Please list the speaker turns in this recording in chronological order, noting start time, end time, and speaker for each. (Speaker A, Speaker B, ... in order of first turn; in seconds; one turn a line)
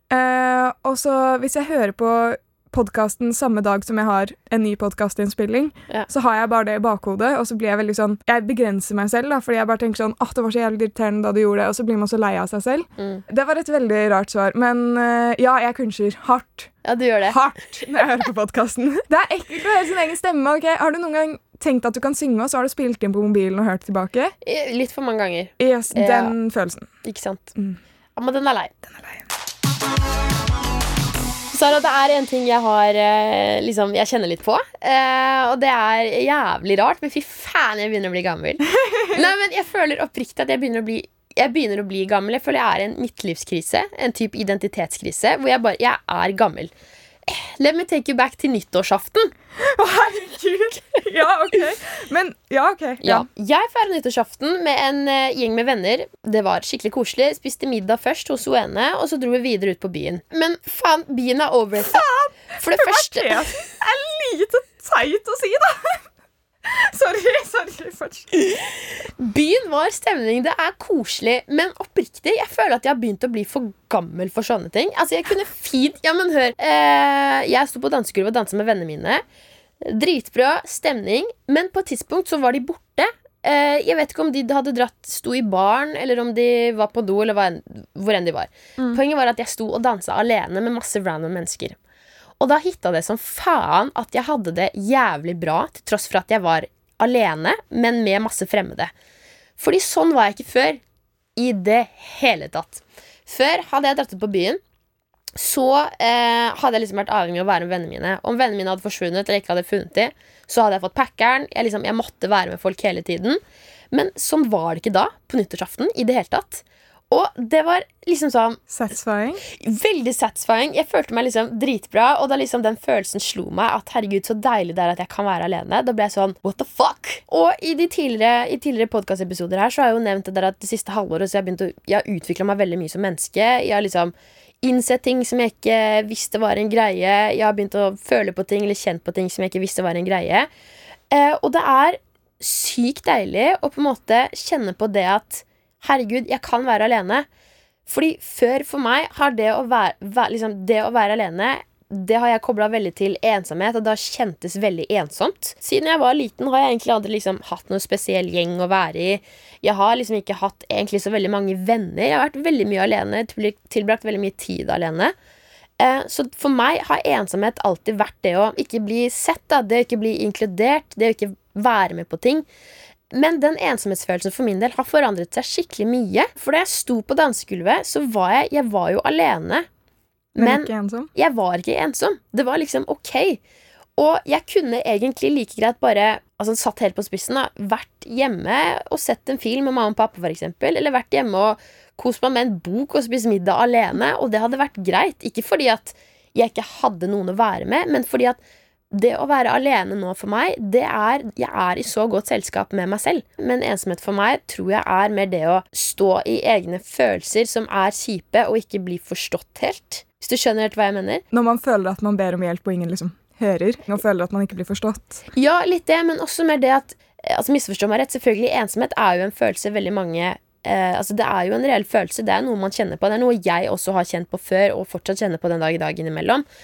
Speaker A: 0.1-16.7
Speaker B: 13.0-13.2
Speaker B: 16.8-17.4
Speaker A: 17.2-24.3
Speaker B: 24.4-26.3
Speaker A: 25.6-26.9
Speaker B: 27.0-27.5
Speaker B: 28.1-28.7
Speaker A: 28.9-29.2
Speaker B: 31.5-46.7
Speaker A: 38.7-39.3
Speaker B: 47.3-49.3
Speaker A: 49.6-53.2
Speaker B: 53.0-62.0
Speaker A: 61.8-66.0
Speaker B: 62.5-63.5
Speaker A: 66.6-68.3
Speaker B: 69.2-79.2
Speaker B: 79.8-91.8
Speaker B: 92.4-98.9
Speaker B: 99.6-100.8
Speaker B: 101.3-104.6
Speaker B: 105.3-113.4
Speaker B: 113.9-118.6
Speaker A: 118.7-119.4
Speaker B: 119.5-140.5
Speaker B: 141.1-147.3
Speaker B: 147.8-165.1
Speaker B: 165.8-172.4
Speaker B: 173.1-179.7
Speaker B: 180.3-183.4
Speaker A: 180.4-181.1
Speaker B: 184.0-198.4
Speaker B: 198.9-211.2
Speaker A: 211.3-215.2
Speaker B: 215.3-226.4